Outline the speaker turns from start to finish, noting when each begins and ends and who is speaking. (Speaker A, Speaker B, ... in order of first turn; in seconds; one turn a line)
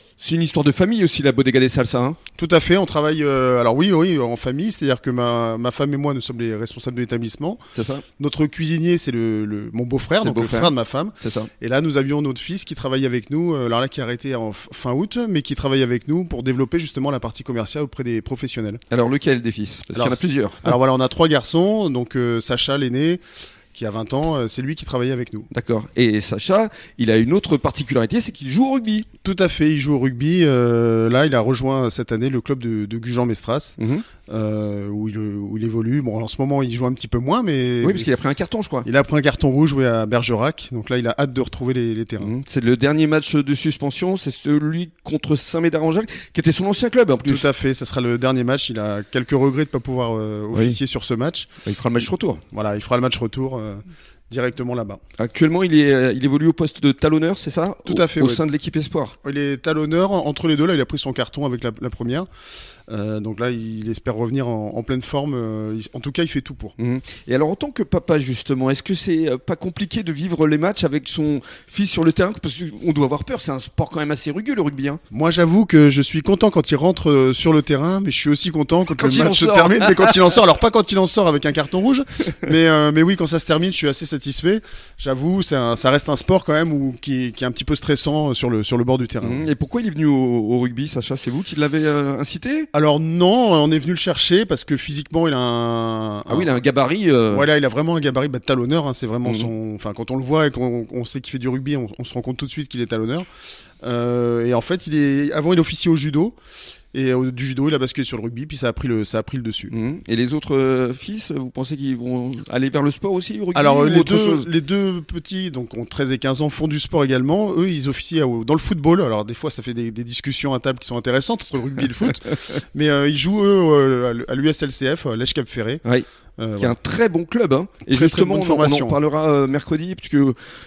Speaker A: 0.2-2.2
Speaker B: 2.4-7.6
Speaker A: 7.8-8.0
Speaker B: 8.2-18.8
Speaker A: 10.2-11.5
Speaker A: 18.9-20.7
Speaker B: 19.9-23.2
Speaker B: 23.7-25.5
Speaker A: 25.5-29.1
Speaker B: 29.2-38.1
Speaker A: 33.8-34.0
Speaker A: 37.8-38.9
Speaker B: 38.8-42.3
Speaker A: 42.2-47.5
Speaker B: 47.2-51.5
Speaker A: 50.5-50.8
Speaker A: 51.6-52.4
Speaker B: 52.5-55.0
Speaker A: 55.2-59.1
Speaker B: 57.9-58.4
Speaker B: 59.2-62.3
Speaker B: 62.9-66.8
Speaker A: 66.8-75.0
Speaker B: 75.1-89.5
Speaker A: 78.9-80.4
Speaker A: 89.2-92.7
Speaker B: 92.7-96.5
Speaker A: 96.3-97.5
Speaker B: 97.3-103.2
Speaker A: 99.2-99.5
Speaker B: 103.8-106.4
Speaker B: 106.9-109.7
Speaker A: 109.7-114.5
Speaker B: 113.5-125.8
Speaker B: 126.4-126.8
Speaker A: 126.6-130.4
Speaker B: 127.9-129.0